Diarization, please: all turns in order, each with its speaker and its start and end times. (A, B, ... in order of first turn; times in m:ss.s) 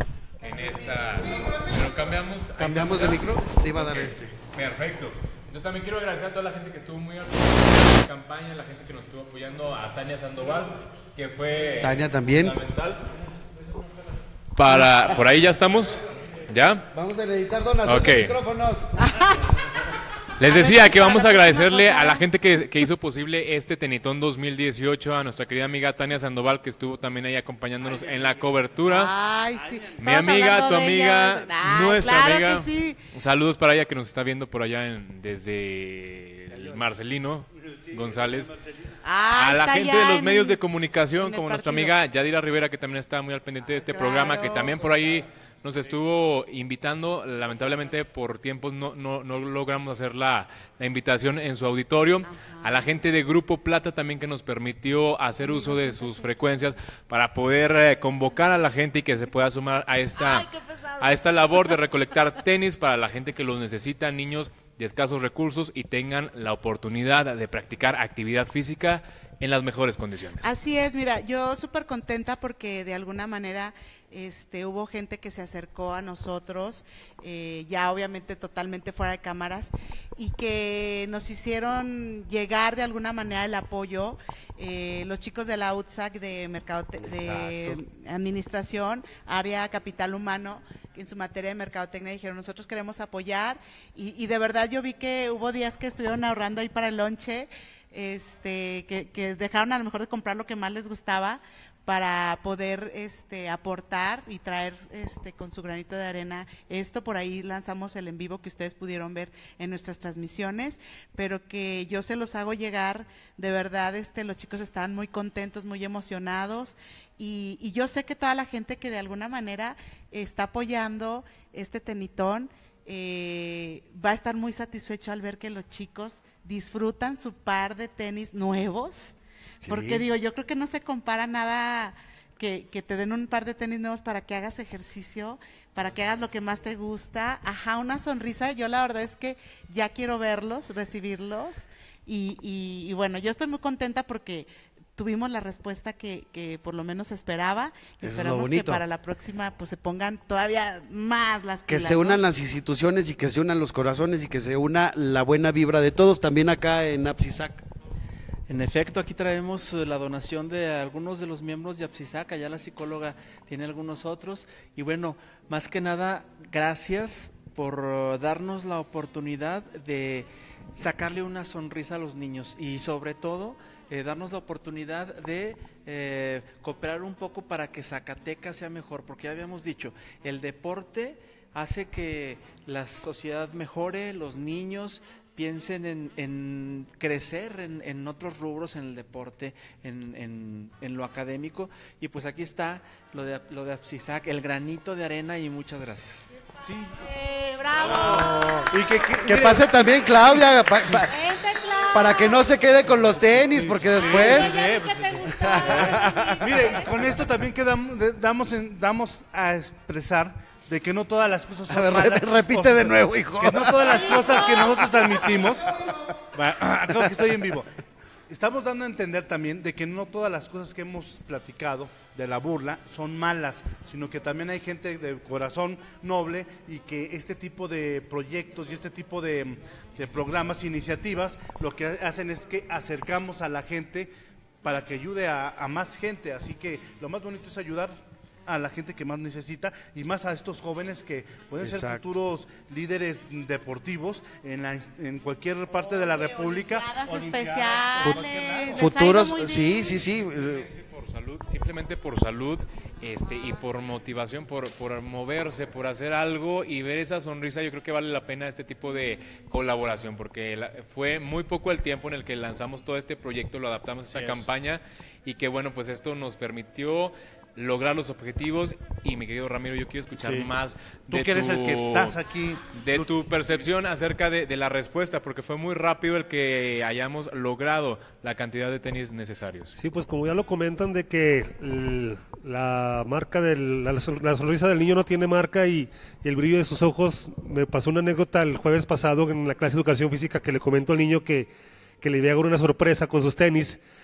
0:00.4-0:13.0 A
0:02.6-0:04.3 B
0:11.8-0:12.6 B
0:14.6-0:16.8 A
0:14.7-0:15.1 B
0:16.9-0:18.9 B
0:17.8-0:18.4 A
0:19.0-0:19.5 C
0:20.4-0:29.1 A
0:20.4-0:22.2 C
0:27.8-0:28.6 D
0:28.9-0:33.0 C
0:29.5-0:29.9 D
0:30.0-0:38.5 A
0:36.5-0:36.8 D
0:37.6-0:38.7 D
0:39.0-0:40.6 C
0:39.4-1:10.5 A
0:41.2-0:41.9 C
0:43.6-0:44.9 C
0:52.2-0:52.9 C
0:55.4-0:56.3 C
1:00.2-1:01.8 C
1:10.4-2:32.2 C
1:27.0-1:27.8 D
2:09.6-2:10.0 B
2:28.0-2:28.8 B
2:31.7-2:37.6 B
2:38.5-3:16.3 E
3:16.6-3:17.0 D
3:17.0-3:18.4 C
3:17.8-3:19.6 D
3:17.9-3:18.7 B
3:19.3-3:21.1 B
3:21.0-3:22.2 C
3:21.9-3:24.6 B
3:23.5-3:35.7 D
3:24.0-3:26.9 C
3:25.5-3:26.6 B
3:31.7-3:35.3 B
3:33.9-3:34.8 C
3:36.3-3:37.7 D
3:38.3-3:54.1 D
3:54.6-4:08.9 D
4:01.6-4:02.0 B
4:06.5-4:10.0 C
4:08.7-4:10.7 B
4:10.4-4:32.2 A
4:24.1-4:24.5 D
4:30.2-4:30.5 D
4:31.1-4:33.1 D
4:32.7-4:39.7 A
4:39.8-4:51.5 F
4:52.0-4:53.8 F